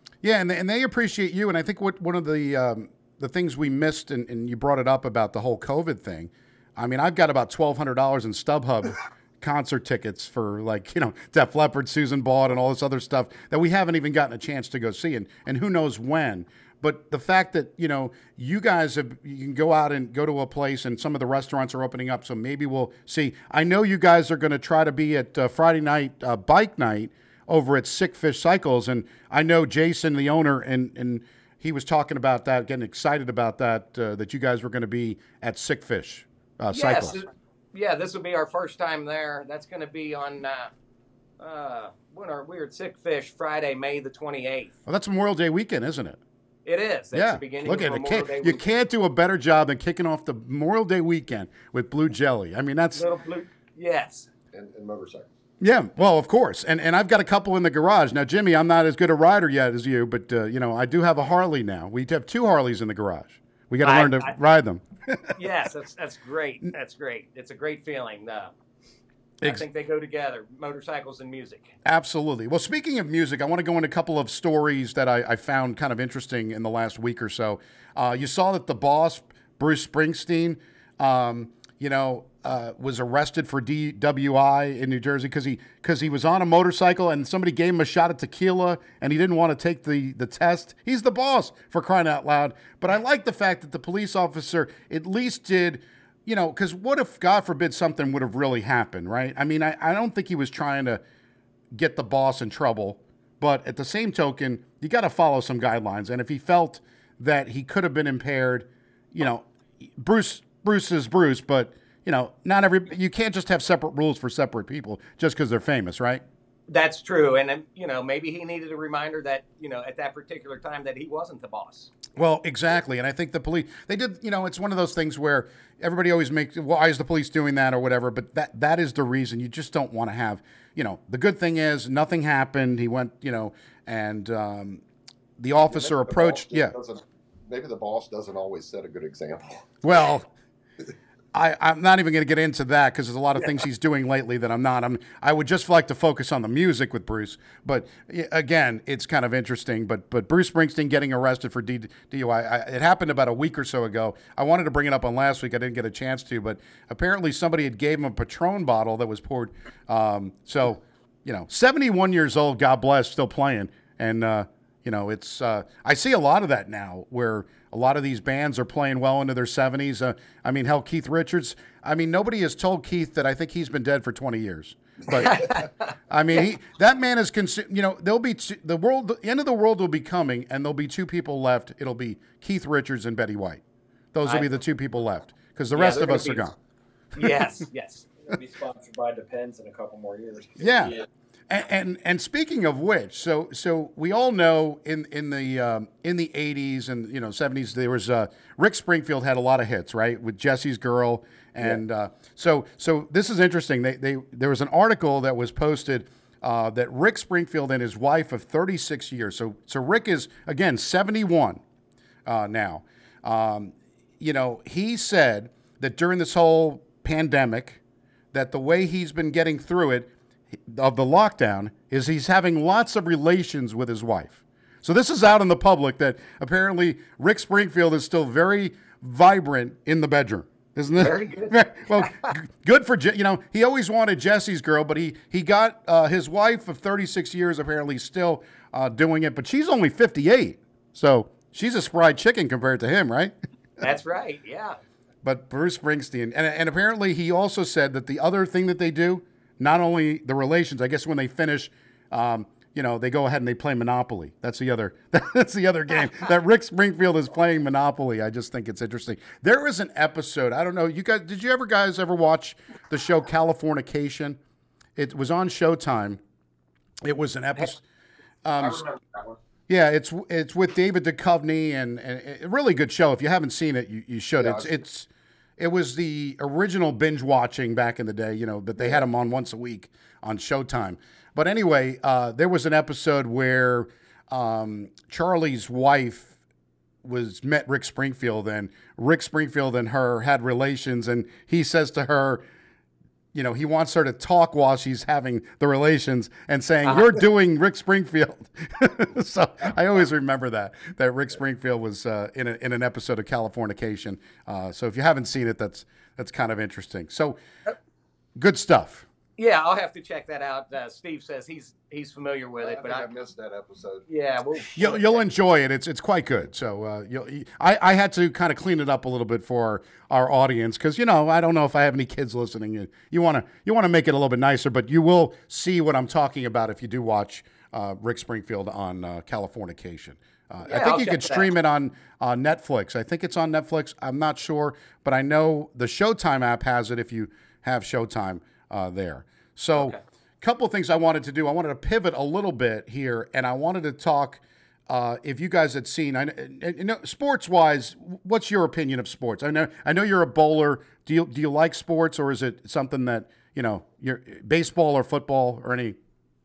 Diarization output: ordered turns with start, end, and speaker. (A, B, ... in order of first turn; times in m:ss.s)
0:00.2-0:37.2 A
0:36.7-0:40.7 B
0:41.4-0:44.7 B
0:44.8-0:46.2 A
0:46.6-0:48.6 B
0:47.1-0:53.1 A
0:52.9-0:54.3 B
0:54.5-0:55.3 C
0:55.6-1:05.4 A
1:03.8-1:04.3 B
1:05.4-1:08.5 B
1:09.4-1:11.7 B
1:11.8-1:41.0 A
1:41.7-1:56.2 A
1:56.7-2:02.0 B
2:02.1-2:14.8 A
2:15.4-2:16.7 A
2:15.7-2:19.7 C
2:19.8-2:20.3 A
2:21.3-2:55.6 A
2:55.1-2:55.7 B
2:56.1-3:03.6 A
3:04.1-3:06.6 A
3:05.7-3:06.5 B
3:07.2-3:08.1 B
3:08.3-3:11.0 D
3:10.6-3:31.6 A
3:32.2-3:37.8 A
3:38.3-3:40.1 A
3:40.6-4:03.3 A
3:51.0-3:52.1 B
4:03.8-4:04.8 B
4:05.2-4:24.4 A
4:25.0-4:26.2 A
4:27.0-4:27.8 A
4:28.4-4:28.9 A
4:28.6-4:29.2 C
4:29.7-4:46.4 A
4:34.4-4:34.8 C
4:47.0-4:52.4 A
4:53.3-5:07.4 A
5:08.4-5:09.0 A
5:09.4-5:13.1 B
5:12.6-5:14.0 C
5:14.1-5:15.2 B
5:14.8-5:56.0 A
5:30.7-5:31.5 B